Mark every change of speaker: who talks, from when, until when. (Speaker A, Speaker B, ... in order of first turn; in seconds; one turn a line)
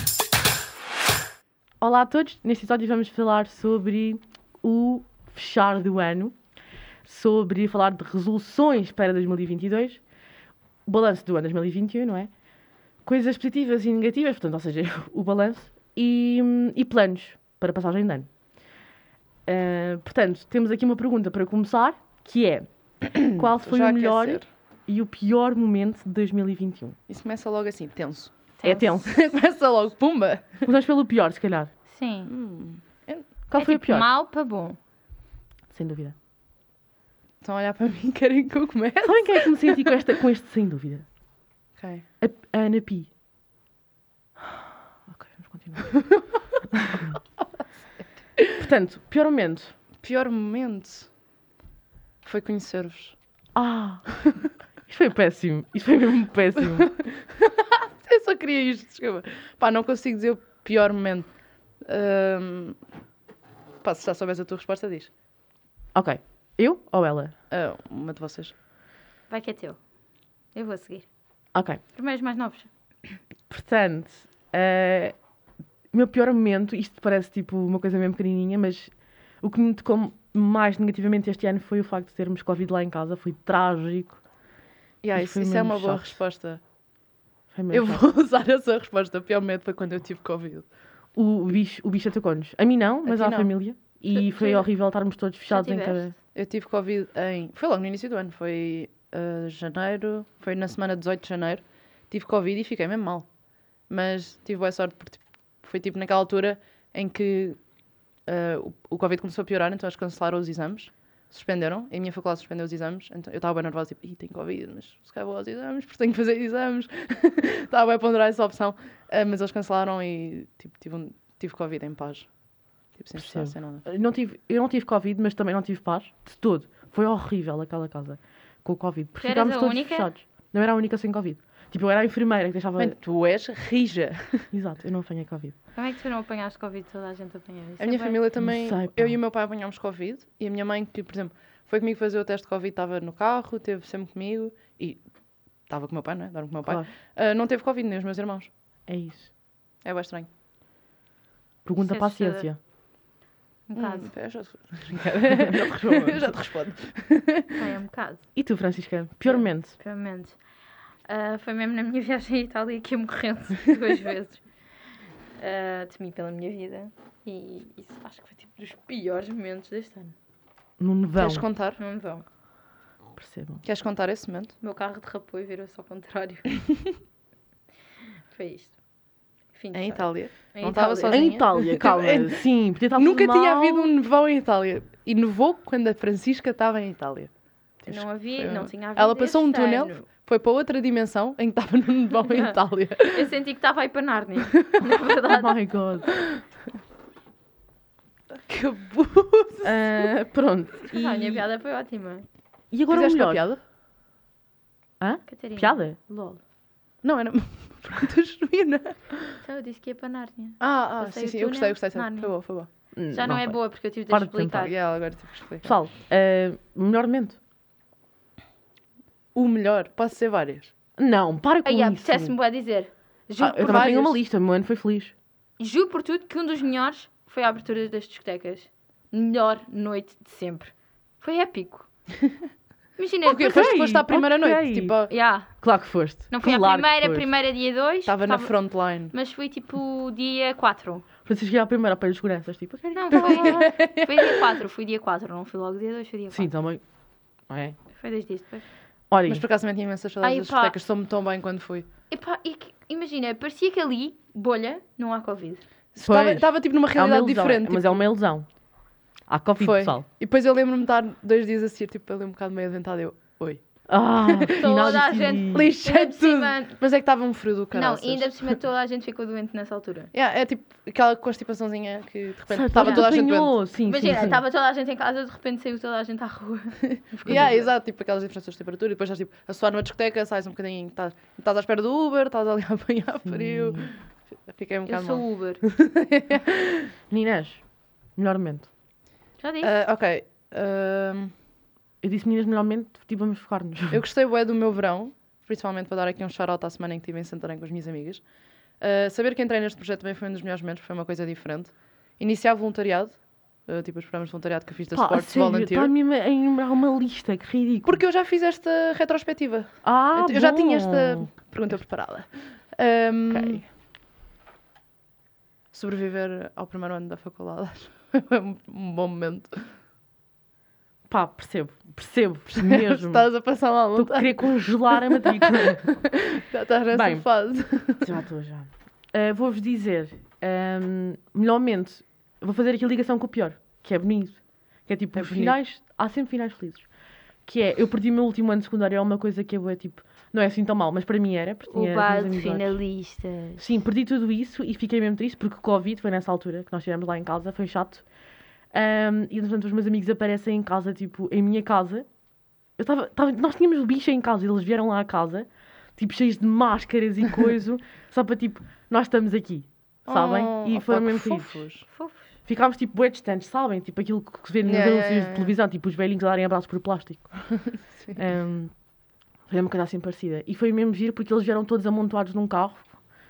Speaker A: 1.8-6.4
Speaker A: 7.0-10.0
Speaker A: 10.9-12.3
Speaker A: 13.0-18.3
Speaker A: 19.5-27.0
Speaker B: 23.1-24.5
Speaker B: 27.1-28.3
Speaker C: 28.6-28.9
Speaker A: 28.6-29.2
Speaker B: 29.0-30.7
Speaker A: 30.6-31.7
Speaker C: 31.9-32.3
Speaker B: 32.3-33.3
Speaker A: 33.5-34.1
Speaker C: 33.5-34.8
Speaker A: 35.7-36.1
Speaker B: 37.4-40.0
Speaker A: 39.0-41.0
Speaker B: 41.8-42.1
Speaker A: 42.2-43.1
Speaker A: 45.1-45.9
Speaker B: 45.9-46.2
Speaker A: 46.7-47.1
Speaker A: 48.6-49.7
Speaker B: 50.0-51.1
Speaker B: 52.2-53.2
Speaker A: 53.5-54.2
Speaker A: 54.9-56.9
Speaker B: 56.8-61.3
Speaker B: 61.8-62.8
Speaker B: 63.8-65.1
Speaker A: 65.9-67.3
Speaker B: 67.5-68.5
Speaker C: 69.3-69.8
Speaker C: 70.5-71.1
Speaker A: 71.5-71.8
Speaker C: 71.9-72.7
Speaker A: 73.5-75.2
Speaker A: 75.9-84.2
Speaker B: 85.0-86.6
Speaker A: 85.2-86.2
Speaker A: 87.5-88.0
Speaker B: 87.7-90.7
Speaker A: 91.2-96.1
Speaker B: 93.0-93.5
Speaker C: 94.1-94.7
Speaker C: 95.5-96.1
Speaker B: 96.3-103.3
Speaker B: 103.9-107.6
Speaker B: 108.3-122.3
Speaker B: 122.9-123.8
Speaker A: 123.2-133.0
Speaker C: 129.2-130.1
Speaker B: 132.8-134.5
Speaker A: 134.5-135.6
Speaker C: 135.8-138.2
Speaker B: 137.8-145.0
Speaker A: 138.4-139.2
Speaker B: 145.7-148.5
Speaker A: 148.9-149.3
Speaker B: 149.8-150.3
Speaker A: 151.7-152.6
Speaker C: 151.8-152.5
Speaker C: 153.7-154.1
Speaker B: 153.8-157.6
Speaker A: 155.4-156.3
Speaker C: 157.6-158.2
Speaker A: 158.4-159.8
Speaker C: 159.2-160.4
Speaker C: 161.1-164.5
Speaker C: 165.4-170.2
Speaker A: 170.8-171.4
Speaker B: 171.2-171.8
Speaker C: 171.8-172.2
Speaker A: 173.2-173.6
Speaker B: 173.6-174.5
Speaker C: 174.6-176.5
Speaker C: 178.3-178.8
Speaker C: 179.5-181.4
Speaker B: 179.7-193.3
Speaker A: 181.1-183.9
Speaker C: 187.9-190.1
Speaker C: 192.3-195.5
Speaker A: 195.3-196.1
Speaker B: 198.5-200.0
Speaker A: 199.6-201.4
Speaker C: 200.9-202.3
Speaker A: 202.7-203.4
Speaker B: 202.9-203.6
Speaker A: 205.0-206.4
Speaker C: 205.3-205.9
Speaker B: 207.0-209.4
Speaker C: 209.4-212.3
Speaker B: 210.6-212.7
Speaker A: 212.9-214.7
Speaker C: 213.1-214.7
Speaker B: 214.7-215.8
Speaker A: 215.6-217.4
Speaker B: 219.3-220.7
Speaker A: 221.0-222.3
Speaker C: 221.6-224.0
Speaker A: 223.4-225.1
Speaker B: 223.4-224.2
Speaker C: 225.6-231.9
Speaker C: 233.0-233.7
Speaker B: 233.3-235.1
Speaker A: 233.4-235.0
Speaker C: 235.1-235.6
Speaker A: 235.5-237.3
Speaker C: 236.3-238.6
Speaker B: 238.1-239.1
Speaker C: 239.1-241.1
Speaker A: 241.2-243.6
Speaker C: 242.9-246.5
Speaker B: 243.1-244.4
Speaker A: 246.3-246.8
Speaker A: 247.5-247.8
Speaker C: 247.9-248.7
Speaker A: 249.1-249.4
Speaker B: 249.3-251.9
Speaker C: 250.2-250.8
Speaker C: 252.1-255.6
Speaker B: 255.9-258.1
Speaker A: 256.0-258.5
Speaker A: 259.3-260.0
Speaker B: 259.6-263.6
Speaker A: 263.9-265.7
Speaker B: 264.2-268.6
Speaker C: 264.6-266.8
Speaker C: 267.7-270.1
Speaker B: 270.1-273.6
Speaker A: 272.5-274.4
Speaker C: 272.8-273.1
Speaker C: 273.8-277.7
Speaker B: 276.9-286.9
Speaker A: 283.3-283.9
Speaker C: 284.9-285.6
Speaker A: 287.1-288.7
Speaker C: 289.4-289.8
Speaker B: 289.6-291.3
Speaker A: 292.0-294.0
Speaker B: 293.9-298.2
Speaker B: 298.8-305.9
Speaker A: 304.9-308.0
Speaker B: 307.9-313.6
Speaker A: 309.8-311.3
Speaker A: 313.3-313.6
Speaker B: 315.7-319.7
Speaker A: 321.1-323.3
Speaker B: 322.6-328.2
Speaker A: 323.9-326.0
Speaker A: 326.9-327.3
Speaker A: 328.0-336.9
Speaker B: 335.1-335.6
Speaker A: 337.4-342.8
Speaker C: 341.7-343.6
Speaker A: 343.6-348.1
Speaker A: 348.7-352.1
Speaker A: 352.8-361.7
Speaker B: 360.1-361.9
Speaker C: 361.9-362.3
Speaker A: 362.4-367.6
Speaker B: 364.6-365.5
Speaker A: 368.1-368.7
Speaker A: 369.5-372.9